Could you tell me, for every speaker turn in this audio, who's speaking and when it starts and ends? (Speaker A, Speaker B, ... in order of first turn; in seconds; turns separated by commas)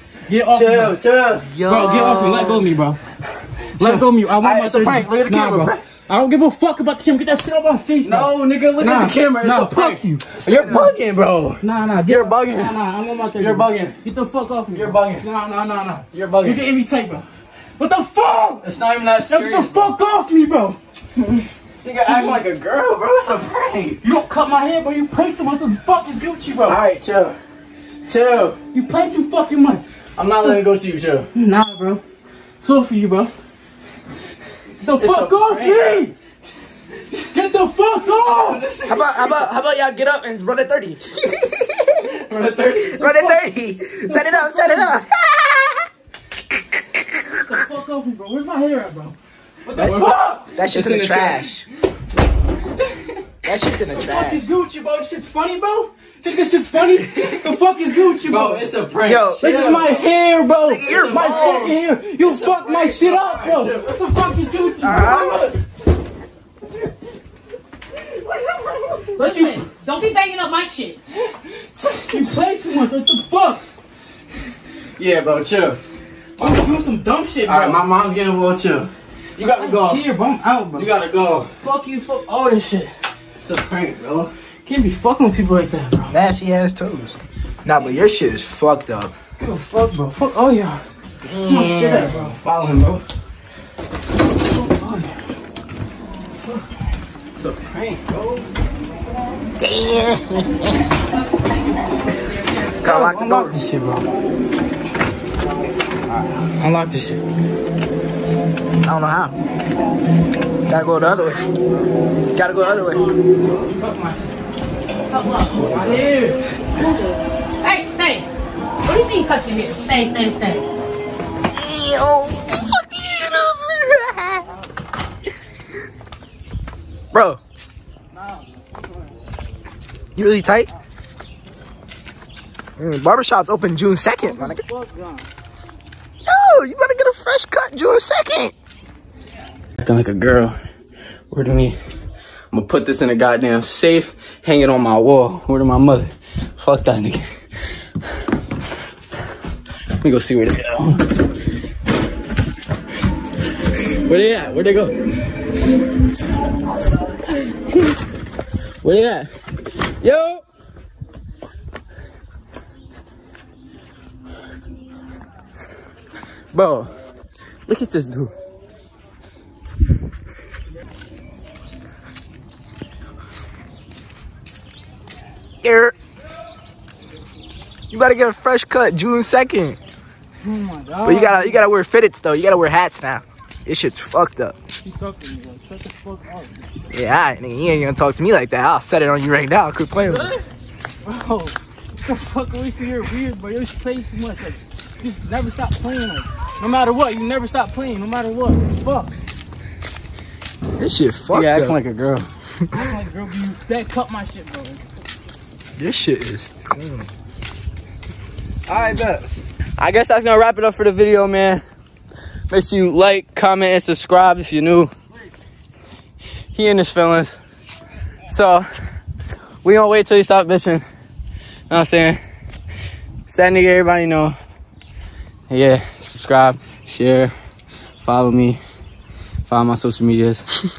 Speaker A: 0.3-1.0, Speaker B: 0.5-2.4, Speaker C: 1.4-2.6, Speaker A: 1.6-3.0, Speaker A: 3.7-10.3, Speaker B: 3.8-5.9, Speaker B: 8.0-14.0, Speaker C: 10.4-10.9, Speaker A: 11.6-18.7, Speaker B: 14.7-15.3, Speaker B: 16.1-16.7, Speaker B: 18.6-19.9, Speaker A: 19.2-21.4, Speaker B: 21.8-24.0, Speaker A: 24.0-26.8, Speaker B: 26.6-27.4, Speaker B: 28.1-28.6, Speaker A: 28.7-29.8, Speaker B: 30.1-31.3, Speaker A: 31.3-32.0, Speaker A: 32.6-33.3, Speaker A: 34.8-36.1, Speaker B: 34.9-36.1, Speaker A: 37.1-38.6, Speaker B: 38.2-39.5, Speaker C: 38.9-42.0, Speaker B: 42.0-43.2, Speaker C: 42.9-45.8, Speaker A: 43.0-43.4, Speaker A: 44.0-45.0, Speaker A: 47.2-50.5, Speaker B: 49.7-51.5, Speaker C: 50.5-51.6, Speaker C: 53.4-54.4, Speaker A: 53.9-58.7, Speaker B: 58.2-60.1, Speaker C: 59.0-59.5, Speaker A: 59.4-65.5, Speaker C: 60.7-61.7, Speaker B: 60.7-64.1, Speaker C: 64.8-65.5, Speaker A: 69.1-69.7, Speaker D: 69.2-71.0, Speaker A: 71.2-73.6, Speaker B: 75.0-75.8, Speaker B: 76.4-76.8, Speaker A: 76.4-77.9, Speaker B: 77.4-80.0, Speaker A: 79.6-80.9, Speaker B: 80.8-81.5, Speaker A: 81.6-82.9, Speaker B: 83.4-84.3, Speaker A: 84.6-86.2, Speaker C: 86.1-89.1, Speaker A: 89.4-90.8, Speaker C: 91.2-92.2, Speaker A: 91.4-92.4, Speaker B: 92.1-93.0, Speaker A: 94.5-95.2, Speaker B: 97.4-98.4, Speaker C: 99.6-100.7, Speaker C: 102.8-103.6, Speaker A: 102.8-104.0, Speaker B: 106.3-107.2, Speaker C: 108.8-109.3, Speaker C: 110.7-111.5, Speaker C: 112.3-113.1, Speaker D: 112.5-113.2, Speaker A: 113.4-114.3, Speaker D: 115.1-115.8, Speaker A: 115.6-116.4, Speaker D: 116.8-118.3, Speaker D: 118.8-120.6, Speaker C: 121.5-124.5, Speaker C: 127.1-127.4, Speaker A: 128.1-129.1, Speaker C: 130.2-130.7, Speaker C: 132.8-134.6, Speaker A: 134.2-135.3, Speaker C: 136.2-138.5, Speaker B: 139.8-140.6, Speaker B: 141.3-141.8, Speaker B: 142.5-147.2, Speaker B: 150.0-151.1, Speaker B: 153.9-155.0, Speaker B: 157.4-157.7, Speaker B: 158.8-159.3, Speaker B: 160.0-160.4, Speaker B: 166.5-166.9, Speaker B: 167.7-168.3, Speaker C: 175.6-175.9, Speaker C: 177.9-179.8, Speaker A: 180.4-181.7, Speaker C: 181.0-184.6, Speaker A: 184.8-186.7, Speaker C: 186.9-190.3, Speaker A: 190.0-190.4, Speaker A: 191.0-199.1, Speaker C: 200.8-201.8, Speaker B: 201.3-202.3, Speaker A: 202.7-204.8, Speaker C: 205.8-207.1, Speaker B: 208.7-211.6, Speaker B: 212.5-214.9, Speaker B: 216.5-217.4, Speaker B: 218.3-218.7, Speaker B: 219.6-220.8, Speaker B: 221.7-222.2, Speaker B: 223.3-224.3, Speaker B: 225.5-227.3, Speaker B: 228.0-228.6, Speaker B: 229.5-230.6